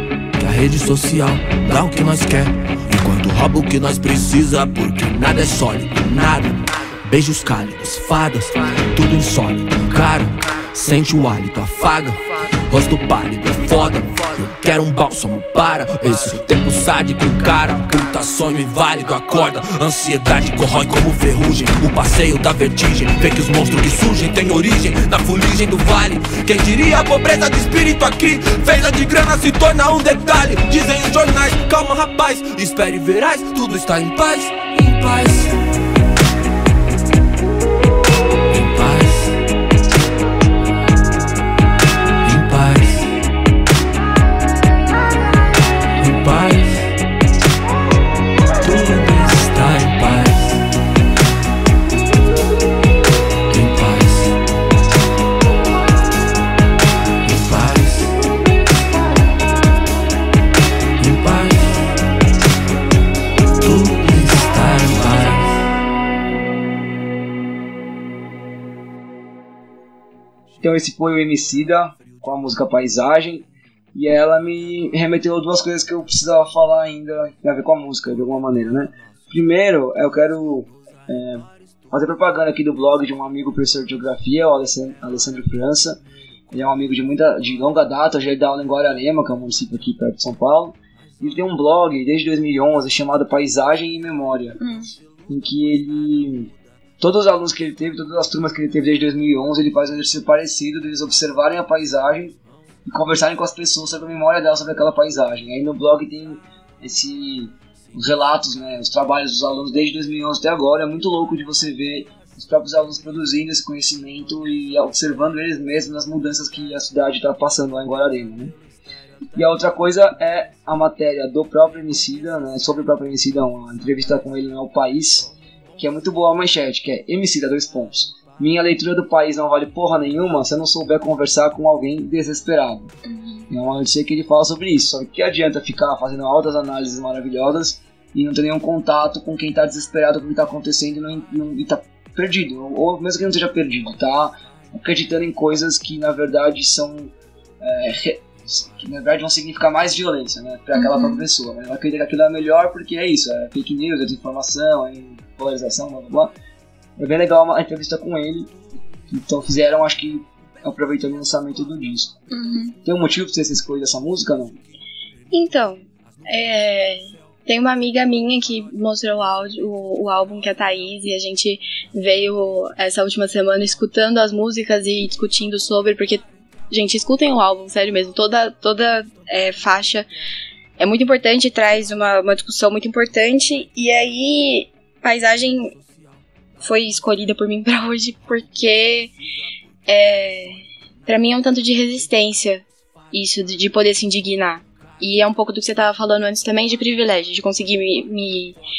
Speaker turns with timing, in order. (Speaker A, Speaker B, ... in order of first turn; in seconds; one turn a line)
Speaker A: 0.4-35.7
Speaker A: 38.5-39.4
Speaker A: 42.2-43.1
Speaker A: 46.0-47.0
Speaker A: 48.6-50.6
Speaker A: 53.5-54.4
Speaker A: 57.2-58.2
Speaker A: 61.0-62.0
Speaker A: 63.6-65.6
Speaker B: 70.6-86.0
Speaker B: 86.5-94.6
Speaker C: 94.6-94.9
Speaker B: 95.3-118.5
Speaker B: 119.3-132.9
Speaker C: 133.1-133.4
Speaker B: 133.5-156.3
Speaker C: 150.7-151.2
Speaker B: 157.0-158.5
Speaker B: 159.1-162.2
Speaker C: 162.3-162.8
Speaker B: 162.8-164.6
Speaker C: 165.3-180.1
Speaker C: 180.8-185.8
Speaker C: 186.6-189.1
Speaker C: 189.9-198.6